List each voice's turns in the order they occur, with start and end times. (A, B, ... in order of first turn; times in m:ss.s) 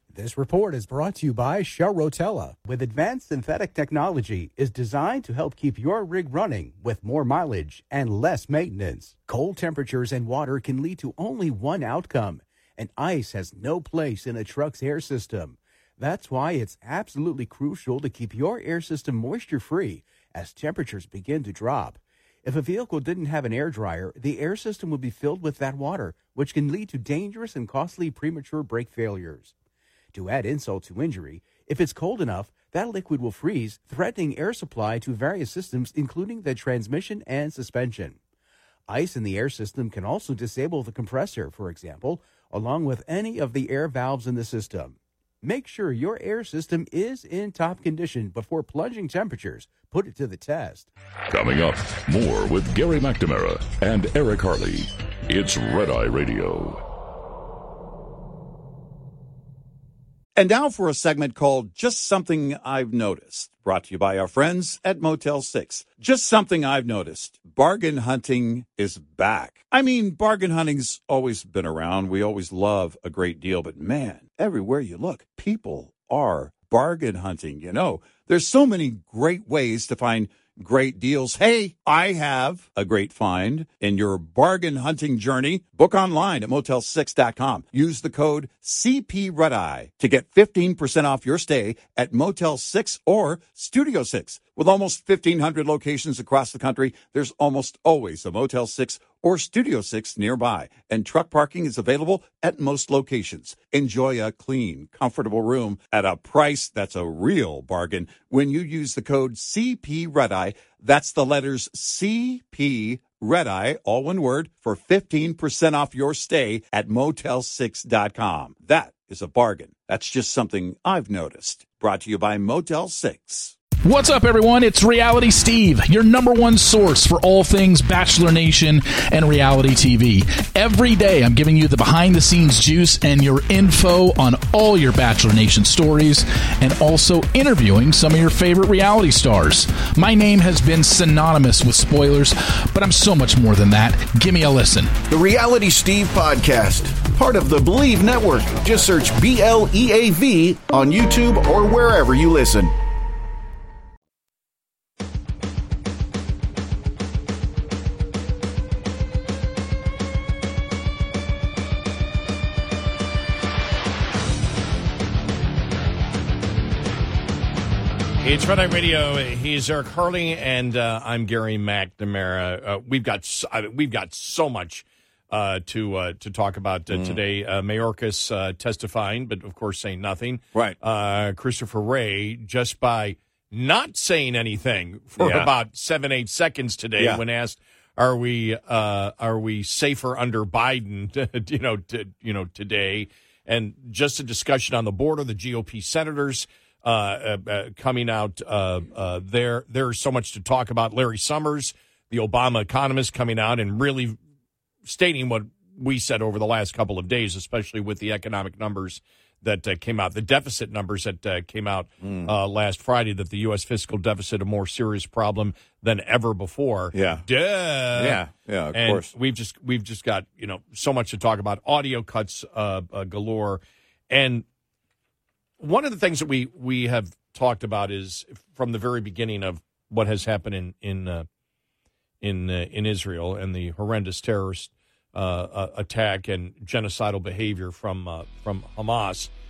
0:00.1-0:29.5 A
0:30.1-0:38.2 A
0:38.9-0:50.9 A
0:51.3-0:56.8 B
1:00.4-2:03.6 C
2:03.8-2:25.0 D
2:25.1-2:32.7 E
2:48.2-3:24.2 F
2:56.9-2:57.2 C
3:05.2-3:05.5 C
3:24.8-3:38.2 F
3:32.0-3:32.3 C
3:36.9-3:37.2 C
3:37.9-3:39.1 C
3:38.7-3:44.4 F
3:45.6-3:51.2 F
3:52.2-3:59.3 F